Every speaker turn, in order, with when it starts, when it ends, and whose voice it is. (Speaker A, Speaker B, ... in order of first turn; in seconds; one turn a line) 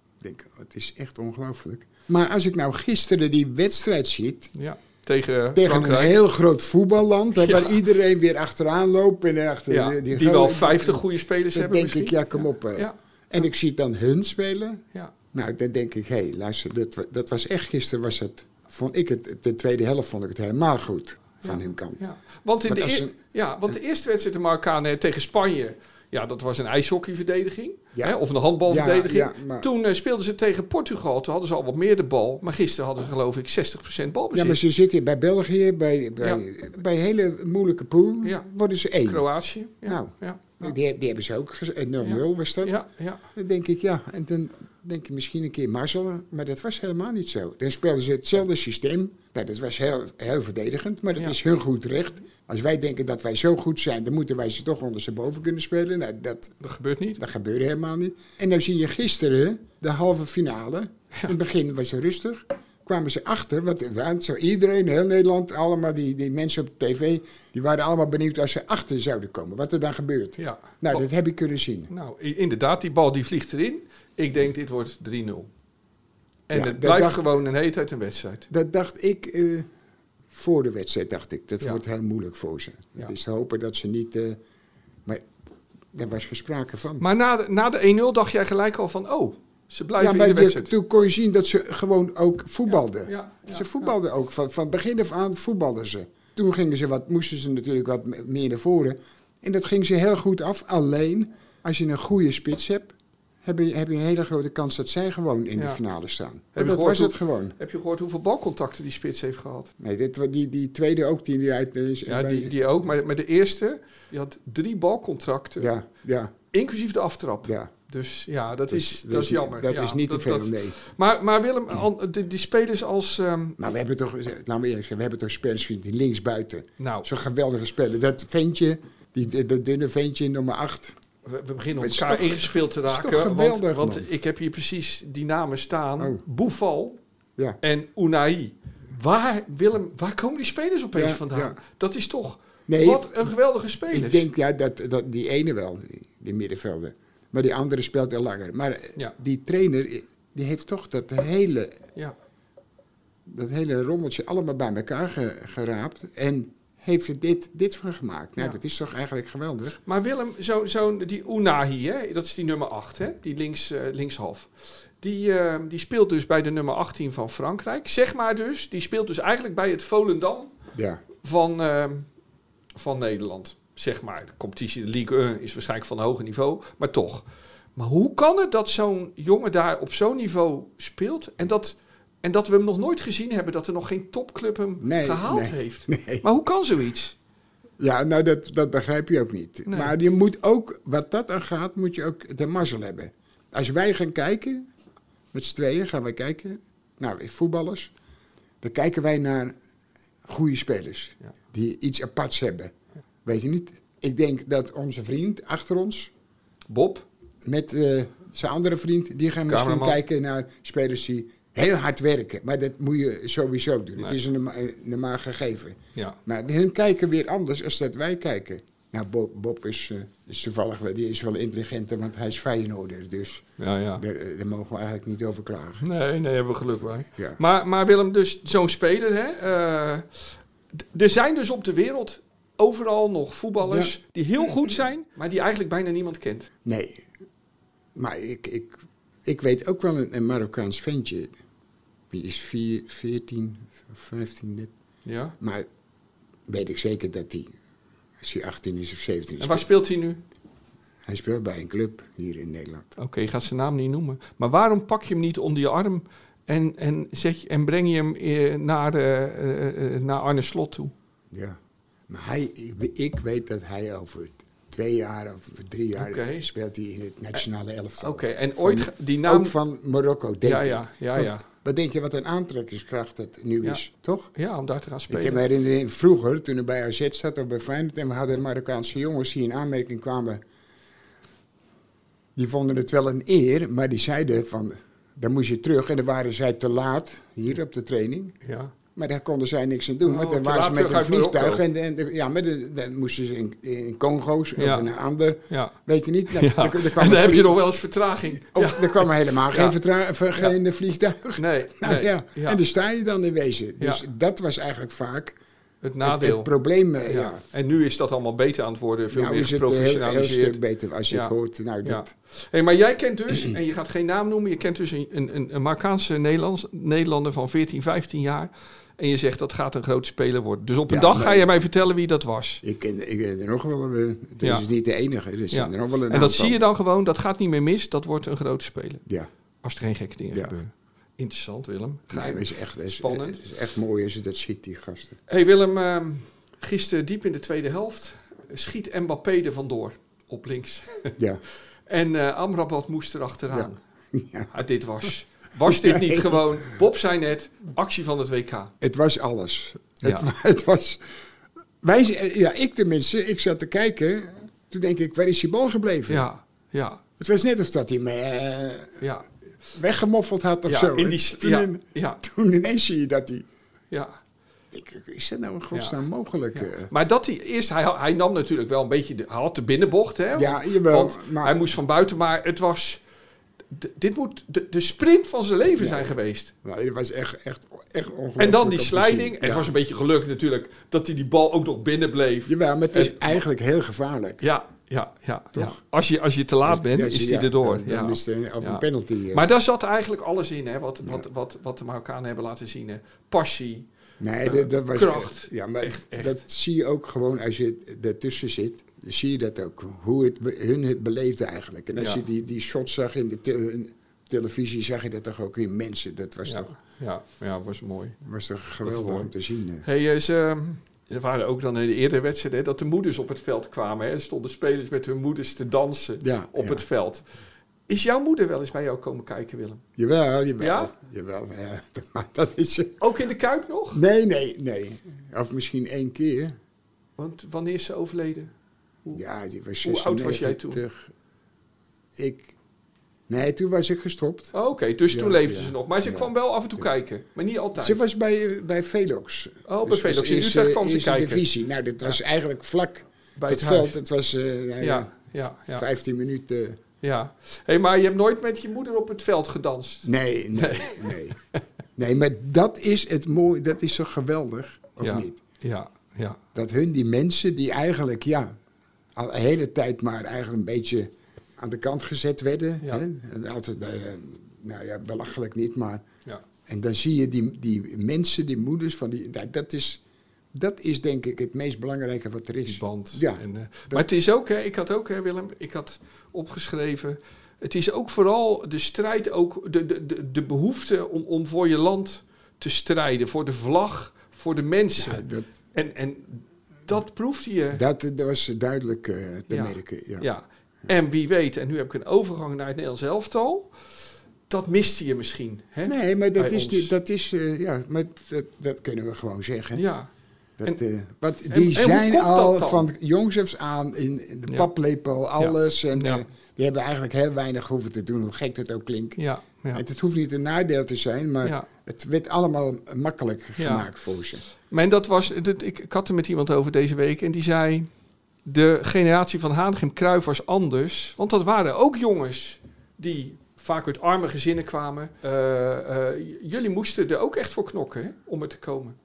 Speaker A: 0.2-4.5
Speaker B: 4.5-6.2
Speaker A: 5.5-14.8
Speaker B: 7.3-7.8
Speaker B: 9.7-12.9
Speaker A: 15.3-22.0
Speaker B: 21.4-34.6
Speaker A: 22.6-23.1
Speaker A: 27.9-29.7
Speaker A: 34.3-39.2
Speaker B: 39.0-40.7
Speaker A: 39.9-42.8
Speaker B: 42.0-43.2
Speaker A: 43.3-56.5
Speaker B: 56.6-57.2
Speaker A: 57.2-71.9
Speaker B: 70.4-71.0
Speaker B: 71.9-75.5
Speaker B: 76.5-78.5
Speaker A: 76.5-77.4
Speaker A: 78.5-79.7
Speaker A: 80.3-84.4
Speaker A: 85.9-87.0
Speaker B: 87.0-90.7
Speaker A: 90.0-107.5
Speaker B: 92.7-93.9
Speaker B: 106.5-109.7
Speaker A: 109.8-112.5
Speaker B: 112.1-115.7
Speaker A: 115.6-116.3
Speaker B: 116.5-123.6
Speaker A: 117.4-117.7
Speaker A: 118.7-120.8
Speaker A: 123.6-130.9
Speaker B: 126.8-127.1
Speaker B: 131.2-137.0
Speaker A: 131.8-134.1
Speaker B: 137.6-144.3
Speaker A: 140.9-141.6
Speaker A: 142.7-143.3
Speaker A: 143.9-151.8
Speaker A: 153.2-159.8
Speaker B: 159.8-170.5
Speaker A: 170.7-171.0
Speaker B: 171.2-172.1
Speaker B: 172.8-177.2
Speaker B: 177.8-187.2
Speaker A: 184.8-186.3
Speaker A: 187.8-194.7
Speaker B: 189.7-189.9
Speaker A: 195.3-197.9
Speaker A: 198.6-199.5
Speaker A: 200.2-202.7
Speaker A: 203.2-206.1
Speaker B: 206.7-207.1
Speaker A: 207.4-223.4
Speaker B: 209.5-210.0
Speaker B: 223.6-224.0
Speaker A: 224.0-225.8
Speaker B: 225.8-230.1
Speaker A: 227.1-227.4
Speaker B: 230.8-236.5
Speaker A: 233.6-233.9
Speaker A: 236.6-237.1
Speaker A: 237.9-241.3
Speaker A: 242.1-244.7
Speaker B: 245.0-245.3
Speaker A: 245.4-245.7
Speaker A: 246.5-247.5
Speaker A: 248.2-249.7
Speaker B: 249.4-250.2
Speaker A: 251.1-253.0
Speaker B: 253.0-260.9
Speaker A: 261.3-261.6
Speaker A: 262.1-274.3
Speaker B: 265.9-266.5
Speaker B: 268.0-269.5
Speaker B: 270.4-271.4
Speaker B: 274.3-275.4
Speaker A: 275.1-280.4
Speaker A: 282.4-288.3
Speaker B: 288.4-288.7
Speaker A: 288.9-297.6
Speaker B: 290.0-291.6
Speaker B: 294.6-294.9
Speaker B: 295.5-295.7
Speaker B: 296.3-299.8
Speaker A: 298.5-305.4
Speaker B: 301.4-302.6
Speaker B: 305.8-306.5
Speaker A: 306.0-307.4
Speaker B: 307.1-322.6
Speaker A: 309.1-312.1
Speaker A: 320.9-321.6
Speaker A: 322.6-326.6
Speaker B: 324.4-324.6
Speaker B: 325.5-329.0
Speaker B: 329.6-333.4
Speaker A: 332.1-335.2
Speaker B: 335.3-341.1
Speaker B: 341.9-343.8
Speaker A: 343.5-344.5
Speaker B: 344.5-348.7
Speaker A: 345.6-346.4
Speaker A: 348.8-351.0
Speaker B: 350.0-350.3
Speaker A: 351.8-356.3
Speaker B: 356.1-357.0
Speaker A: 357.2-359.0
Speaker B: 359.0-359.2
Speaker A: 359.7-363.5
Speaker B: 360.7-362.2
Speaker B: 363.9-364.2
Speaker A: 364.7-366.9
Speaker B: 365.7-366.0
Speaker B: 366.5-373.0
Speaker A: 370.3-371.6
Speaker B: 373.7-376.5
Speaker A: 375.8-379.7
Speaker B: 378.4-383.4
Speaker A: 382.5-384.4
Speaker B: 384.4-393.9
Speaker A: 386.6-389.5
Speaker A: 394.2-406.7
Speaker B: 394.4-396.4
Speaker B: 402.0-402.2
Speaker B: 406.4-408.2
Speaker A: 408.2-409.9
Speaker B: 408.8-409.3
Speaker B: 409.8-417.2
Speaker A: 416.2-416.8
Speaker B: 417.9-419.8
Speaker A: 420.0-423.0
Speaker B: 420.6-420.9
Speaker B: 423.0-424.0
Speaker A: 423.9-426.6
Speaker B: 427.2-428.5
Speaker A: 429.1-431.1
Speaker B: 429.8-430.8
Speaker A: 432.1-432.5
Speaker A: 433.3-434.5
Speaker B: 434.5-438.0
Speaker A: 435.1-436.3
Speaker A: 437.8-445.1
Speaker B: 439.7-441.4
Speaker B: 443.4-443.9
Speaker B: 444.8-445.8
Speaker A: 445.7-446.8
Speaker B: 447.0-451.6
Speaker A: 450.0-451.4
Speaker A: 452.0-455.4
Speaker B: 455.0-456.4
Speaker A: 456.5-458.5
Speaker A: 459.1-466.0
Speaker A: 466.7-470.0
Speaker A: 470.5-474.1
Speaker B: 472.7-487.8
Speaker A: 485.0-485.5
Speaker A: 487.7-490.3
Speaker B: 489.5-493.7
Speaker B: 494.5-496.9
Speaker A: 495.9-499.8
Speaker B: 499.7-500.1
Speaker A: 500.6-509.2
Speaker B: 501.5-502.9
Speaker B: 505.4-506.2
Speaker B: 509.2-509.8
Speaker A: 509.7-514.4
Speaker B: 511.4-511.7
Speaker B: 513.6-513.9
Speaker B: 514.7-517.9
Speaker B: 518.4-529.0